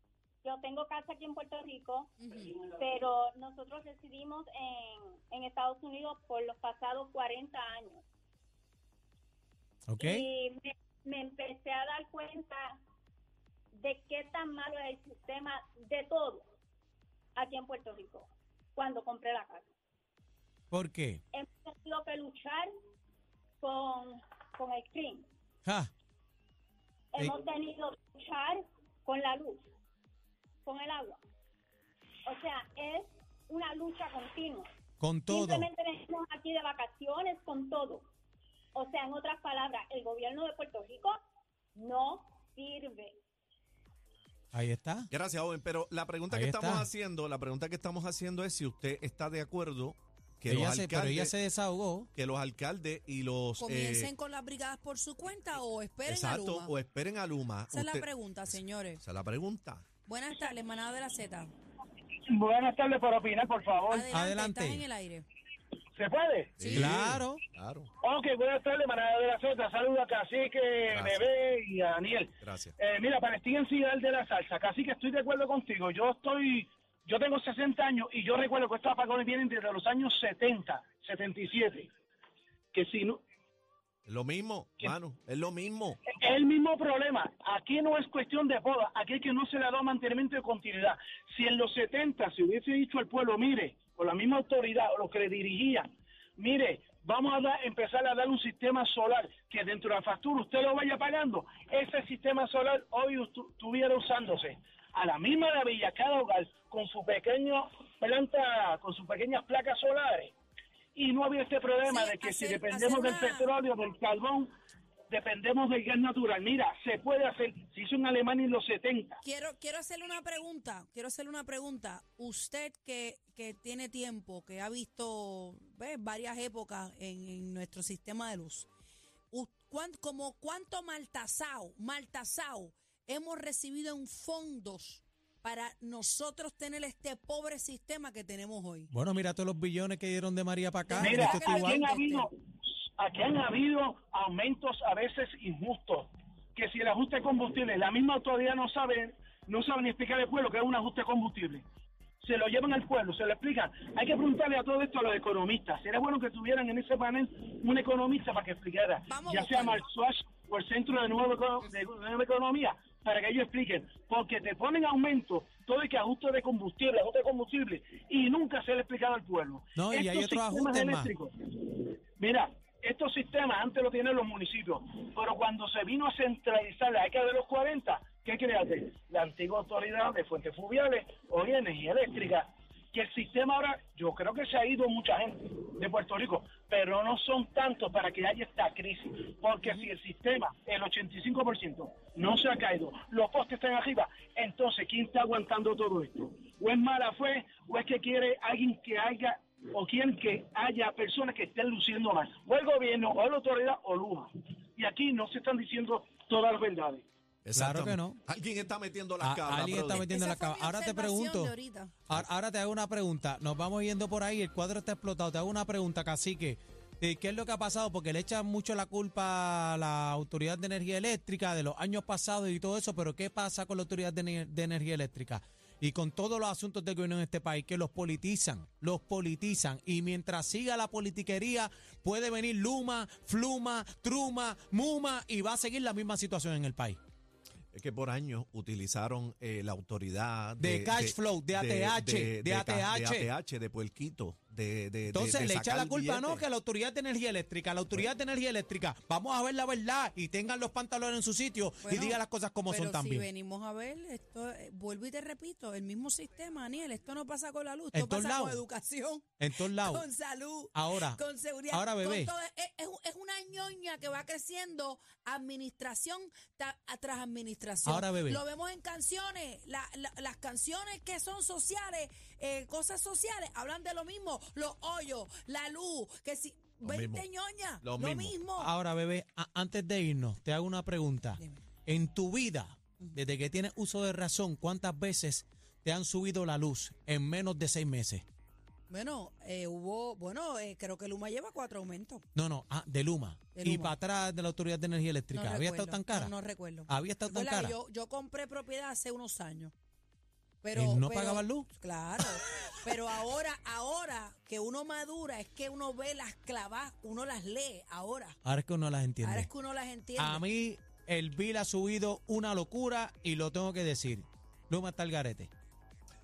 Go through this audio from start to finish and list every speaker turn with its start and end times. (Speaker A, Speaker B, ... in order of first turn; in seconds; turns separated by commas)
Speaker A: 0.4-8.0, Speaker B: 2.2-2.5, Speaker C: 9.9-10.2, Speaker A: 10.0-12.8, Speaker A: 13.8-16.5, Speaker A: 17.4-19.7, Speaker C: 20.7-21.2, Speaker A: 21.3-22.7, Speaker A: 23.6-25.3, Speaker C: 25.6-25.9, Speaker A: 27.1-29.7, Speaker A: 30.6-31.2, Speaker A: 32.2-34.7, Speaker C: 35.0-35.7, Speaker A: 35.3-38.1, Speaker A: 38.7-41.2, Speaker A: 41.7-43.2, Speaker C: 44.5-45.1, Speaker D: 45.1-51.3, Speaker C: 46.3-46.9, Speaker C: 50.5-52.1, Speaker D: 52.1-54.1, Speaker B: 53.6-56.7, Speaker D: 56.0-59.8, Speaker B: 57.7-59.0, Speaker B: 60.0-61.5, Speaker E: 62.3-64.1, Speaker B: 63.9-65.2, Speaker C: 64.1-64.8, Speaker E: 65.9-66.8, Speaker D: 66.6-67.9, Speaker C: 66.6-67.4, Speaker E: 68.0-81.9, Speaker D: 70.9-71.3, Speaker D: 72.4-72.8, Speaker E: 82.7-83.2, Speaker D: 84.1-86.0, Speaker E: 86.1-110.3, Speaker E: 110.9-114.5, Speaker B: 111.9-113.4, Speaker E: 115.1-119.2, Speaker B: 119.2-128.7, Speaker B: 129.3-138.9, Speaker C: 138.9-141.8, Speaker B: 140.9-142.3, Speaker E: 141.0-151.6, Speaker E: 152.2-207.0, Speaker B: 159.1-159.8, Speaker C: 169.7-171.1, Speaker D: 207.4-210.1, Speaker C: 207.6-208.2, Speaker C: 209.2-211.5, Speaker B: 210.0-211.9, Speaker C: 212.1-237.0, Speaker D: 237.7-246.4, Speaker C: 240.6-243.3, Speaker C: 245.1-253.3, Speaker B: 251.8-278.7, Speaker C: 257.9-258.6, Speaker C: 259.4-260.0, Speaker C: 260.7-262.3, Speaker C: 267.9-268.4, Speaker D: 276.8-277.2, Speaker D: 277.8-278.3, Speaker C: 278.6-288.2, Speaker B: 288.9-292.2, Speaker C: 292.4-296.3, Speaker B: 293.5-293.9, Speaker B: 295.3-299.7, Speaker C: 296.9-297.7, Speaker B: 300.6-308.4, Speaker C: 300.7-301.7, Speaker C: 302.2-302.9, Speaker C: 308.4-309.5, Speaker B: 309.2-310.4, Speaker C: 310.2-315.5